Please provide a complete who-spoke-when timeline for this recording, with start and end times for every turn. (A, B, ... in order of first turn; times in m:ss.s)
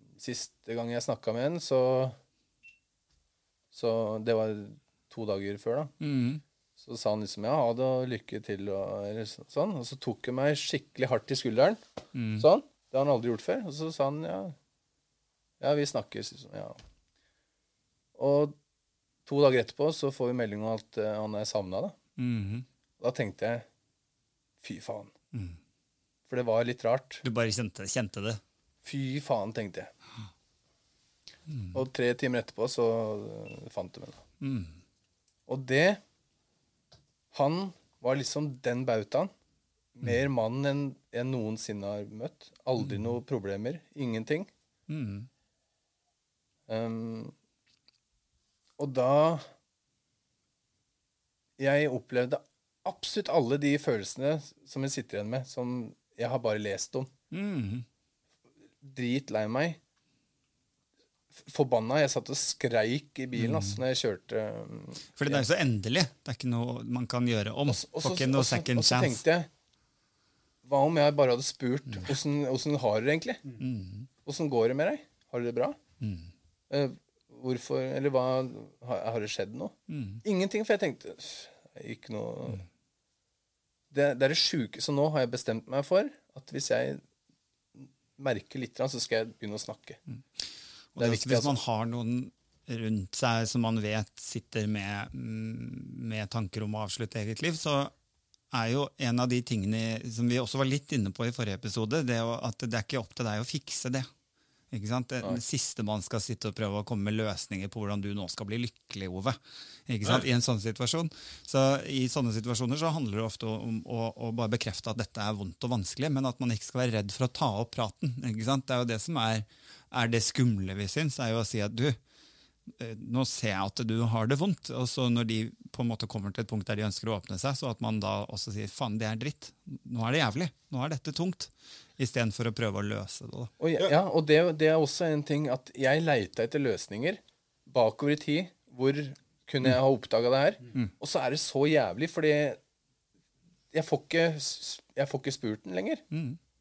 0:00.2-0:02.2 A
0:03.7-0:05.9 A
0:06.0-0:06.4 B
0:06.8-0:11.8 A
0:12.1-0:12.4 B
0:12.4-0:14.5 A
0:15.6-0:16.8 A
0:18.2-0:18.6 A
0:19.2-0:21.9 A
0:22.2-0:22.6 B
0:23.0-0:23.6 A
0:24.6-0:25.1 A
0:26.3-0:27.2 A
0:27.2-0:28.4 B
0:28.8-0:29.9 A
0:31.5-0:31.8 B
0:31.7-0:34.2 A
0:34.4-0:34.8 B
0:35.5-0:36.0 A
0:37.3-0:39.3 A
0:39.9-0:44.5 A
0:42.8-0:43.1 B
0:44.9-0:45.3 B
0:46.7-0:47.3 A
0:48.8-0:49.4 A
0:51.6-0:57.1 A
0:57.3-0:57.8 B
0:58.8-0:59.8 A
1:01.3-1:05.4 A
1:03.4-1:03.8 B
1:05.2-1:09.2 B
1:07.7-1:09.5 A
1:10.6-1:13.5 A
1:13.6-1:14.1 B
1:14.2-1:15.8 A
1:16.0-1:16.3 B
1:16.7-1:22.6 A
1:19.9-1:20.2 B
1:23.9-1:27.0 A
1:27.8-1:30.0 A
1:30.9-1:37.9 B
1:31.0-1:31.5 A
1:38.5-1:44.1 B
1:44.7-2:02.0 B
2:02.7-2:13.5 B
2:13.6-2:22.6 A
2:23.7-2:26.0 A
2:26.1-2:26.4 B